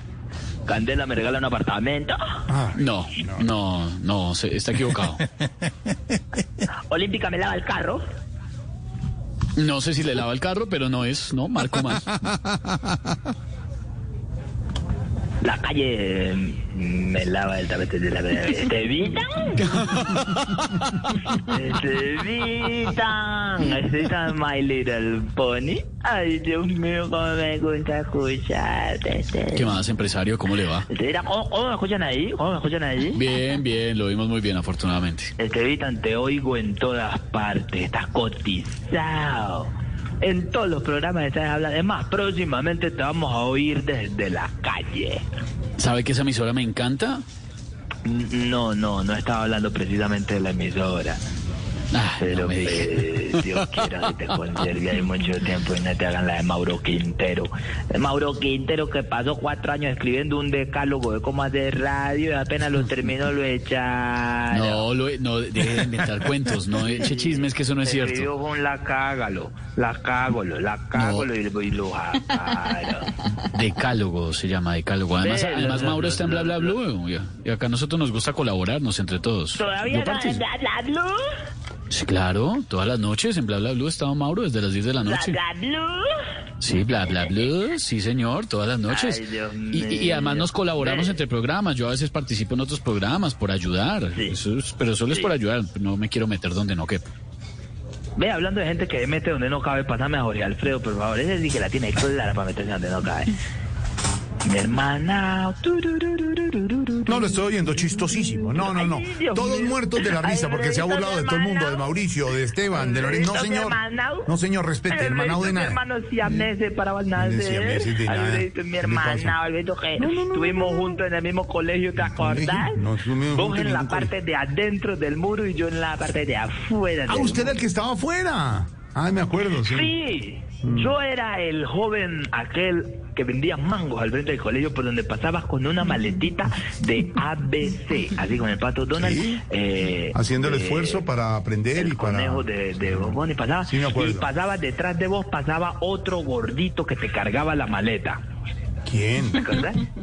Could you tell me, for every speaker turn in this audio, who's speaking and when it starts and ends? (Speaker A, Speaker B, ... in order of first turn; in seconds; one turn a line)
Speaker A: 0.7-2.1
Speaker B: 2.5-3.5
Speaker C: 2.8-5.2
Speaker A: 6.9-8.0
Speaker C: 9.6-12.7
Speaker A: 15.4-19.8
Speaker C: 19.7-20.4
Speaker A: 21.3-29.7
Speaker C: 29.5-30.9
Speaker A: 30.9-33.2
Speaker C: 33.1-35.3
Speaker A: 35.4-45.2
Speaker C: 45.8-47.2
Speaker A: 48.0-51.2
Speaker C: 51.9-53.8
Speaker A: 52.2-64.9
Speaker C: 64.5-68.3
Speaker A: 66.9-73.1
Speaker C: 70.9-71.3
Speaker C: 73.5-80.4
Speaker A: 75.2-76.8
Speaker A: 79.5-81.2
Speaker C: 81.9-85.4
Speaker A: 85.0-86.1
Speaker C: 86.6-97.0
Speaker A: 88.9-91.2
Speaker A: 98.2-103.3
Speaker A: 104.4-111.9
Speaker B: 107.1-116.5
Speaker A: 112.7-114.3
Speaker A: 114.9-122.8
Speaker B: 117.2-119.4
Speaker B: 120.0-121.0
Speaker B: 122.0-124.1
Speaker A: 123.3-127.5
Speaker B: 127.1-129.9
Speaker A: 129.6-141.0
Speaker B: 130.6-131.0
Speaker B: 138.9-139.4
Speaker B: 140.1-144.3
Speaker A: 141.8-148.2
Speaker B: 148.8-149.4
Speaker A: 149.4-149.8